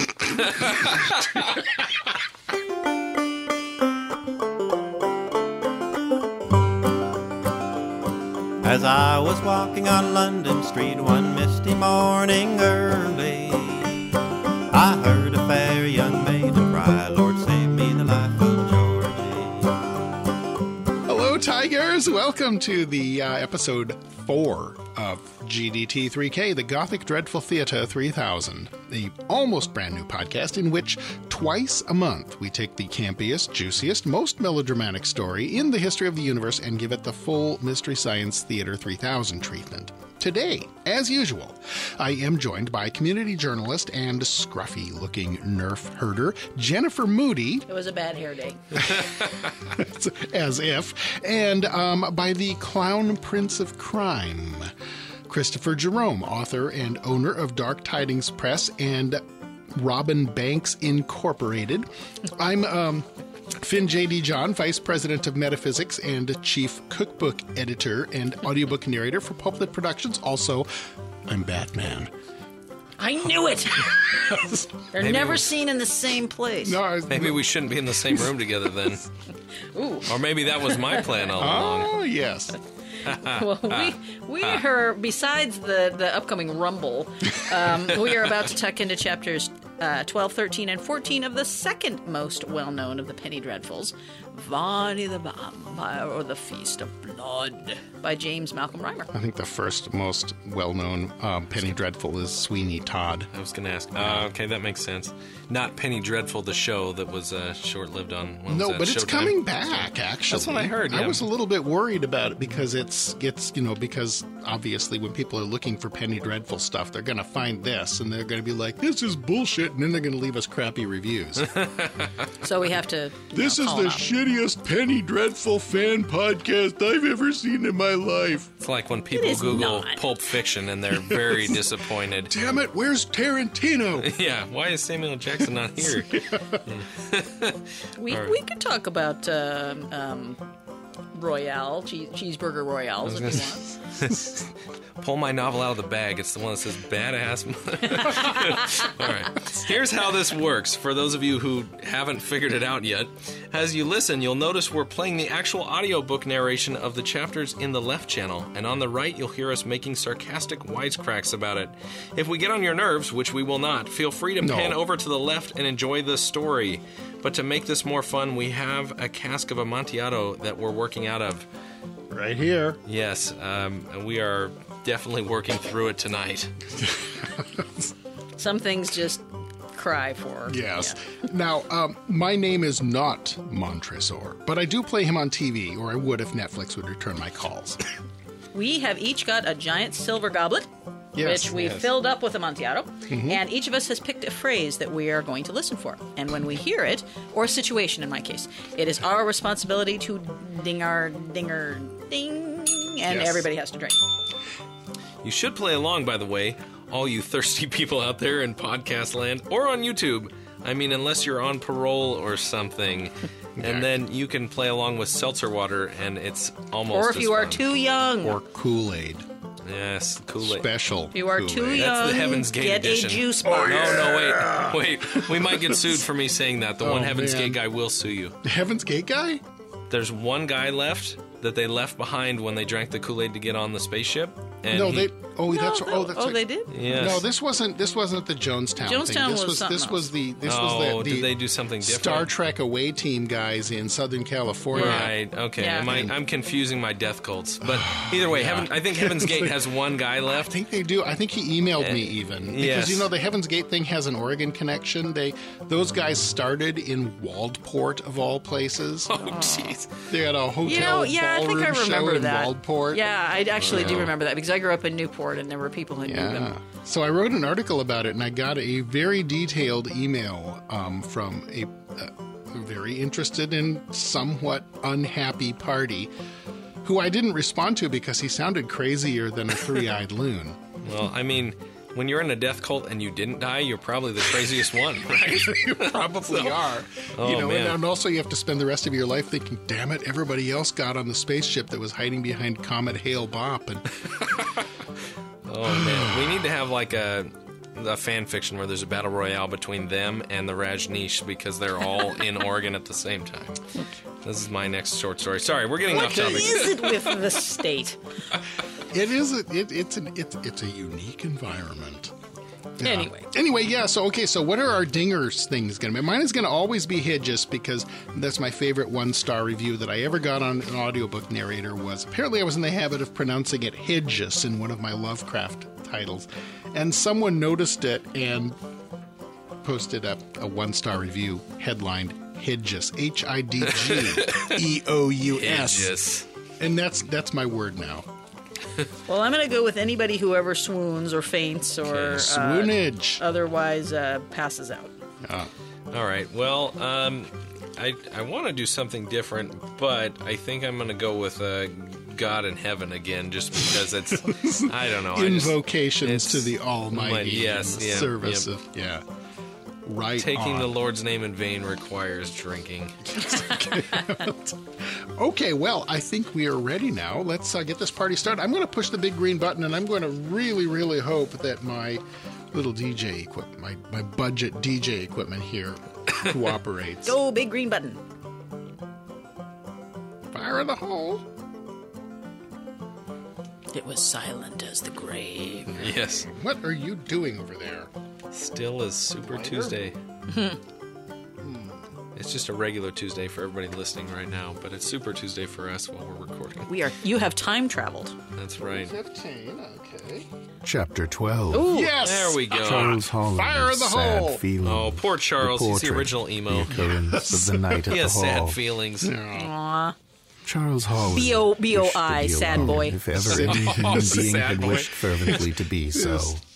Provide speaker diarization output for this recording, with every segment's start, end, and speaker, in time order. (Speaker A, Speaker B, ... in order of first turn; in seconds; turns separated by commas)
Speaker A: 0.4-1.4, Speaker B: 8.6-14.0, Speaker B: 14.7-19.7, Speaker C: 21.0-47.6, Speaker D: 47.7-48.8, Speaker C: 48.7-54.7, Speaker C: 55.2-59.2, Speaker C: 59.7-70.7, Speaker C: 71.3-72.1, Speaker D: 73.0-76.8, Speaker C: 74.3-74.7, Speaker A: 75.0-75.5, Speaker C: 76.6-78.4, Speaker A: 77.1-79.1, Speaker D: 79.7-80.1, Speaker A: 80.1-82.0, Speaker D: 80.7-81.1, Speaker C: 81.3-82.6, Speaker A: 83.0-83.9, Speaker D: 83.1-99.1, Speaker C: 99.1-103.3, Speaker A: 103.3-111.3, Speaker C: 104.0-104.3, Speaker C: 108.5-121.6, Speaker A: 121.6-122.2, Speaker D: 122.4-124.1, Speaker C: 123.3-128.5, Speaker A: 128.6-132.3, Speaker D: 129.1-130.2, Speaker C: 131.0-131.7, Speaker C: 132.2-134.1, Speaker A: 134.0-138.3, Speaker C: 135.8-136.6, Speaker D: 138.0-140.4, Speaker D: 141.1-143.7, Speaker A: 143.0-144.5, Speaker A: 145.0-171.5, Speaker D: 148.1-148.8, Speaker C: 164.4-164.8, Speaker C: 172.1-172.8, Speaker A: 172.8-176.5, Speaker D: 178.3-181.0, Speaker C: 180.5-187.8, Speaker D: 188.5-204.0, Speaker C: 191.1-191.9, Speaker C: 193.1-193.4, Speaker C: 203.1-203.5, Speaker A: 205.2-217.7, Speaker C: 213.6-213.9, Speaker D: 216.9-218.4, Speaker C: 218.2-219.2, Speaker A: 219.6-220.7, Speaker C: 220.4-221.9, Speaker D: 221.1-224.0, Speaker A: 221.7-228.3, Speaker C: 223.4-225.8, Speaker C: 226.8-227.6, Speaker C: 228.4-229.4, Speaker A: 229.9-235.1, Speaker C: 234.7-245.2, Speaker D: 235.5-237.2, Speaker A: 236.7-237.2, Speaker D: 238.8-240.1, Speaker A: 240.4-242.3, Speaker D: 244.7-245.9, Speaker A: 244.7-250.6, Speaker C: 245.8-246.1, Speaker C: 247.6-249.6, Speaker C: 250.3-259.3, Speaker A: 251.8-253.1, Speaker A: 259.1-260.0, Speaker D: 259.2-259.8, Speaker C: 260.1-263.0, Speaker D: 260.6-266.5, Speaker C: 263.6-264.1, Speaker A: 263.6-264.1, Speaker C: 266.0-276.1, Speaker C: 276.8-280.6, Speaker A: 280.8-287.8, Speaker C: 285.3-293.9, Speaker A: 294.2-294.6, Speaker A: 295.4-303.6, Speaker C: 295.7-296.3, Speaker A: 304.2-307.2, Speaker C: 305.8-306.7, Speaker D: 305.9-308.0, Speaker C: 308.9-312.1, Speaker C: 312.8-328.6, Speaker D: 312.8-313.3, Speaker C: 329.6-335.9, Speaker A: 333.6-334.6, Speaker A: 335.2-336.2, Speaker C: 336.6-338.1, Speaker D: 339.1-344.9, Speaker A: 341.9-342.1, Speaker C: 342.1-343.2, Speaker C: 345.2-345.5, Speaker A: 345.9-358.5, Speaker C: 354.1-359.0, Speaker C: 359.8-360.7, Speaker A: 360.2-363.2, Speaker C: 363.1-377.2, Speaker D: 377.0-378.0, Speaker C: 380.3-381.2, Speaker D: 383.7-385.9, Speaker C: 385.7-387.9, Speaker A: 385.8-386.3, Speaker A: 388.3-390.0, Speaker C: 389.3-389.8, Speaker D: 390.3-390.6, Speaker C: 391.4-391.8, Speaker A: 392.1-396.7, Speaker D: 396.7-398.1, Speaker A: 398.3-398.9, Speaker C: 398.8-400.3, Speaker E: 400.6-401.8, Speaker D: 401.5-402.0, Speaker C: 401.6-404.4, Speaker A: 402.0-403.0, Speaker E: 402.5-408.6, Speaker A: 404.6-409.2, Speaker C: 406.7-407.8, Speaker C: 409.0-409.5, Speaker D: 409.3-409.9, Speaker E: 410.4-416.4, Speaker D: 411.1-413.1, Speaker A: 413.1-415.5, Speaker C: 413.2-414.8, Speaker C: 415.9-416.3